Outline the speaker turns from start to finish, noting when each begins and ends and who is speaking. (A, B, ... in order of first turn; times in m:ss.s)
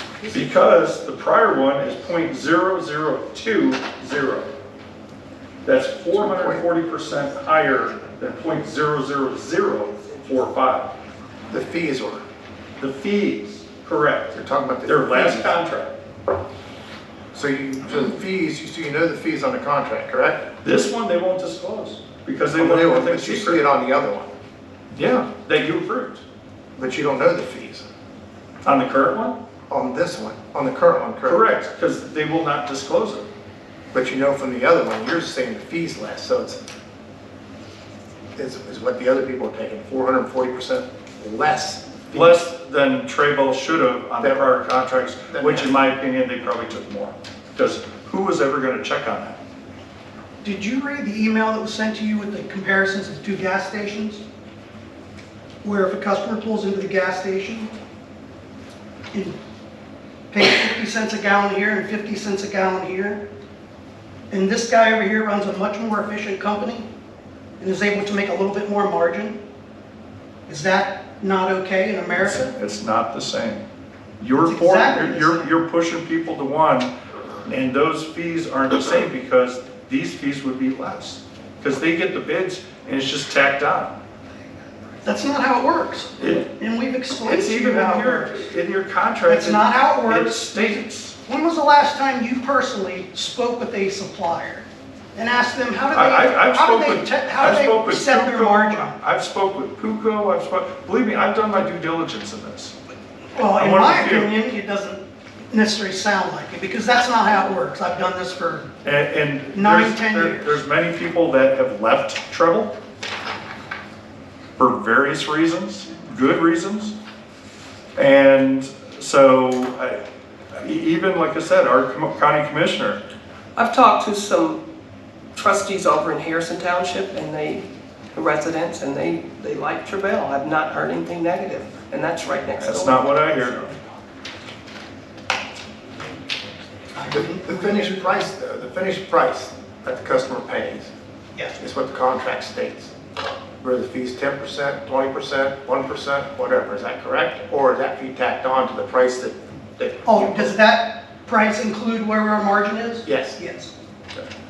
0:00.3-0:04.5 A
0:05.6-0:10.9 A
0:06.1-0:06.6 B
0:11.5-0:12.2 B
0:12.8-0:16.0 A
0:14.3-0:15.5 B
0:17.3-0:20.4 B
0:20.6-0:23.6 A
0:22.6-0:24.3 B
0:24.9-0:26.2 A
0:26.8-0:27.8 B
0:28.6-0:29.4 A
0:29.7-0:31.5 B
0:31.2-0:33.3 A
0:33.9-0:36.6 B
0:38.4-0:42.4 B
0:42.1-0:49.4 A
0:44.2-0:44.5 B
0:45.3-0:45.8 B
0:50.4-0:54.2 C
0:55.6-0:57.7 C
0:59.1-0:59.4 C
1:00.3-1:03.2 C
1:04.3-1:06.9 C
1:07.6-1:09.4 C
1:10.5-1:12.5 C
1:12.2-1:13.6 A
1:14.2-1:16.9 A
1:14.4-1:15.5 C
1:17.4-1:24.0 A
1:25.0-1:28.5 C
1:26.2-1:26.5 A
1:27.2-1:31.2 A
1:29.2-1:39.0 C
1:35.9-1:42.7 A
1:43.3-1:48.7 C
1:43.6-1:44.3 A
1:48.8-1:52.8 A
1:49.5-1:50.6 C
1:54.6-1:57.0 A
1:58.0-2:00.0 A
2:00.6-2:03.0 A
2:03.6-2:04.6 D
2:05.3-2:13.7 D
2:12.6-2:13.6 A
2:16.9-2:18.0 C
2:17.1-2:20.9 B
2:21.6-2:22.9 B
2:23.6-2:30.6 B
2:30.1-2:33.7 C
2:33.0-2:33.4 B